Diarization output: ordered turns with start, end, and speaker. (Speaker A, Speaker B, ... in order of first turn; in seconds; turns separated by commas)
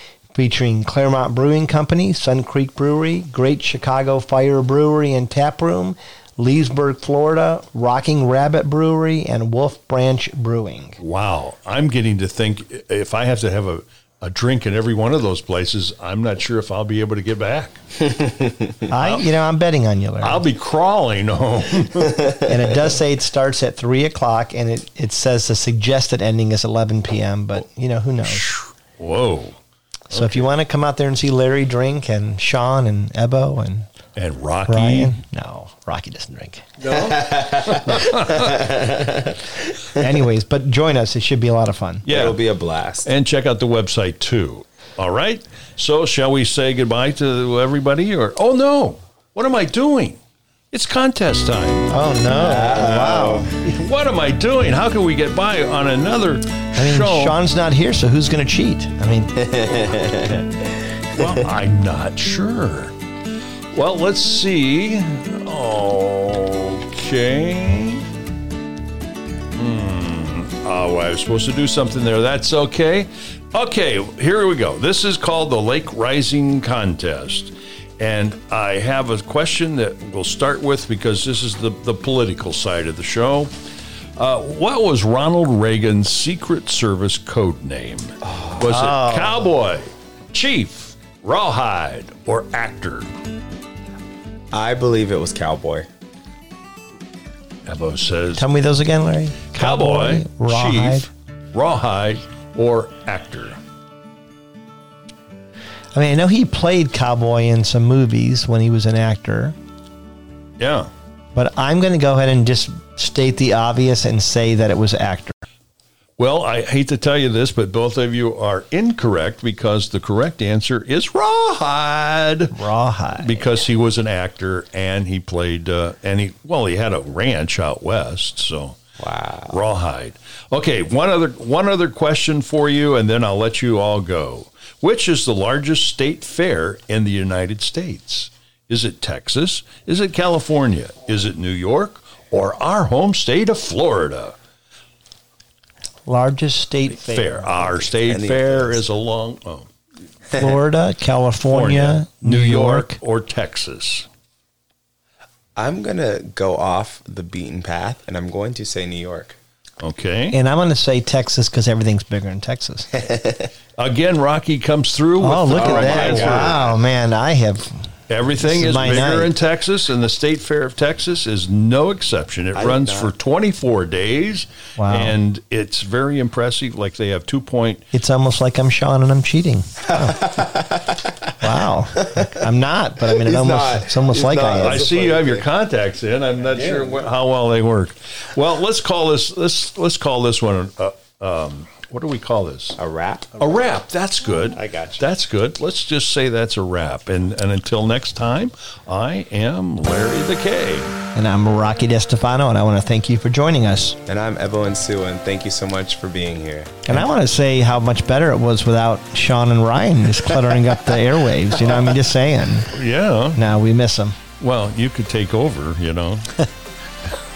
Speaker A: 0.3-11.0, Speaker B: 11.0-17.8, Speaker A: 18.9-20.4, Speaker B: 19.0-19.2, Speaker B: 20.2-22.3, Speaker A: 22.4-28.5, Speaker B: 28.2-29.6, Speaker A: 30.1-33.9, Speaker B: 30.1-30.4, Speaker B: 34.2-35.2, Speaker A: 34.7-36.7, Speaker B: 36.8-38.6, Speaker C: 36.9-40.0, Speaker A: 40.0-42.1, Speaker B: 42.0-42.4, Speaker C: 42.1-43.1, Speaker B: 43.0-50.2, Speaker B: 50.7-51.9, Speaker A: 51.9-53.5, Speaker C: 52.3-53.5, Speaker B: 53.6-57.4, Speaker A: 56.8-59.4, Speaker C: 59.4-60.6, Speaker C: 61.1-61.4, Speaker B: 61.1-62.9, Speaker B: 63.7-68.1, Speaker B: 69.6-83.5, Speaker B: 84.2-93.1, Speaker C: 88.2-88.8, Speaker A: 88.7-89.5, Speaker C: 94.5-95.9, Speaker B: 97.7-98.5, Speaker A: 98.4-101.1, Speaker B: 99.5-103.6, Speaker A: 105.9-109.5, Speaker B: 110.6-110.9, Speaker A: 111.3-115.4, Speaker B: 116.2-122.6, Speaker A: 122.5-123.5, Speaker B: 123.2-128.8, Speaker C: 129.0-129.6, Speaker B: 129.5-144.4, Speaker A: 146.1-147.8, Speaker B: 147.1-149.7, Speaker C: 148.0-148.8, Speaker A: 150.3-153.0, Speaker B: 151.5-154.1, Speaker C: 155.6-159.4, Speaker B: 159.8-160.4, Speaker A: 160.3-162.9, Speaker C: 162.9-163.5, Speaker B: 163.8-166.7, Speaker A: 165.2-167.9, Speaker C: 165.5-166.7, Speaker B: 168.1-177.8, Speaker A: 168.4-169.3, Speaker C: 172.6-173.2, Speaker A: 174.8-175.2, Speaker A: 177.9-180.2, Speaker C: 179.8-181.3, Speaker A: 181.4-184.8, Speaker C: 183.2-185.5, Speaker B: 184.6-192.8, Speaker C: 192.8-193.4, Speaker B: 193.4-201.0, Speaker C: 194.5-195.0, Speaker A: 201.2-204.0, Speaker C: 204.1-206.8, Speaker A: 206.9-212.7, Speaker B: 212.7-213.4, Speaker A: 213.3-214.2, Speaker B: 214.4-216.4